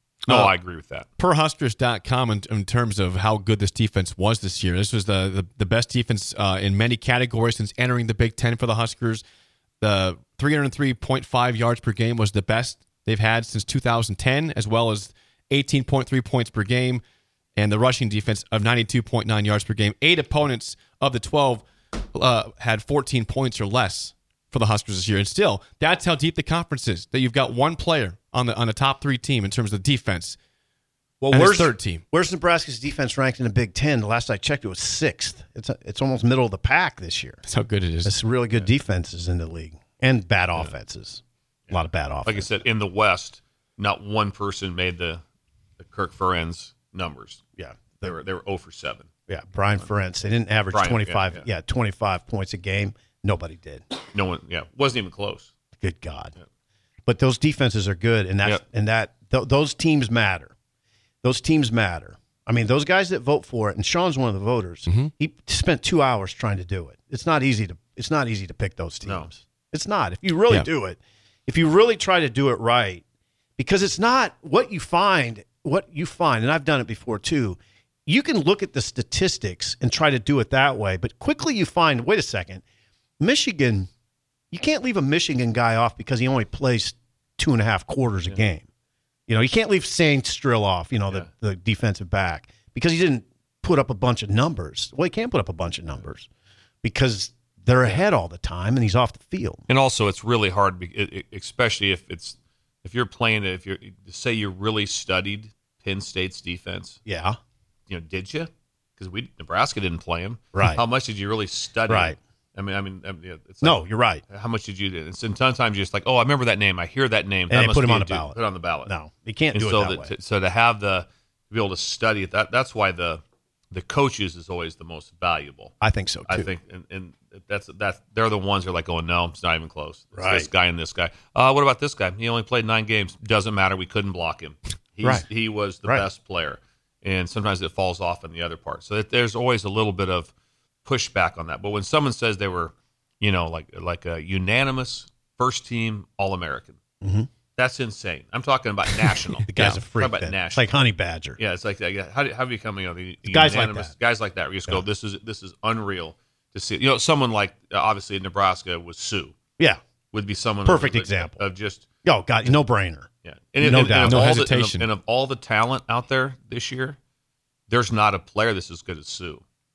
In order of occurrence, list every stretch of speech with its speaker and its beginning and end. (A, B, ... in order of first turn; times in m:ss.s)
0:00.2-0:01.1 A
0:00.3-0:00.5 B
0:01.2-0:09.2 B
0:09.8-0:17.0 B
0:17.6-0:30.4 B
0:31.2-0:37.4 C
0:31.3-0:32.0 B
0:37.5-0:38.2 B
0:38.0-0:42.6 C
0:41.7-0:45.2 A
0:45.8-0:49.1 A
0:47.6-0:48.2 C
0:49.3-0:53.8 C
0:50.7-0:51.4 A
0:54.1-0:55.5 A
0:55.8-0:56.3 C
0:57.1-1:00.5 C
1:01.2-1:13.0 C
1:04.9-1:05.1 B
1:09.0-1:09.3 A
1:13.6-1:22.6 C
1:23.2-1:23.9 C
1:24.5-1:28.7 C
1:29.3-1:36.3 C
1:36.8-1:39.6 C
1:39.7-1:47.0 A
1:47.1-1:47.4 C
1:47.9-1:58.9 A
1:50.5-1:50.8 C
1:51.9-1:52.2 C
1:53.6-1:54.2 C
1:57.5-2:00.1 C
1:59.5-2:05.7 A
2:05.8-2:06.5 C
2:06.3-2:20.3 A
2:10.2-2:10.5 C
2:20.8-2:26.8 A
2:27.0-2:27.3 C
2:27.6-2:30.7 A
2:29.5-2:31.4 C
2:29.6-2:29.8 B
2:31.4-2:39.4 A
2:33.2-2:33.9 C
2:40.1-2:41.9 A
2:40.6-2:41.4 C
2:42.0-2:43.1 C
2:43.2-2:47.0 A
2:43.6-2:44.4 C
2:44.0-2:44.9 B
2:47.7-2:49.4 A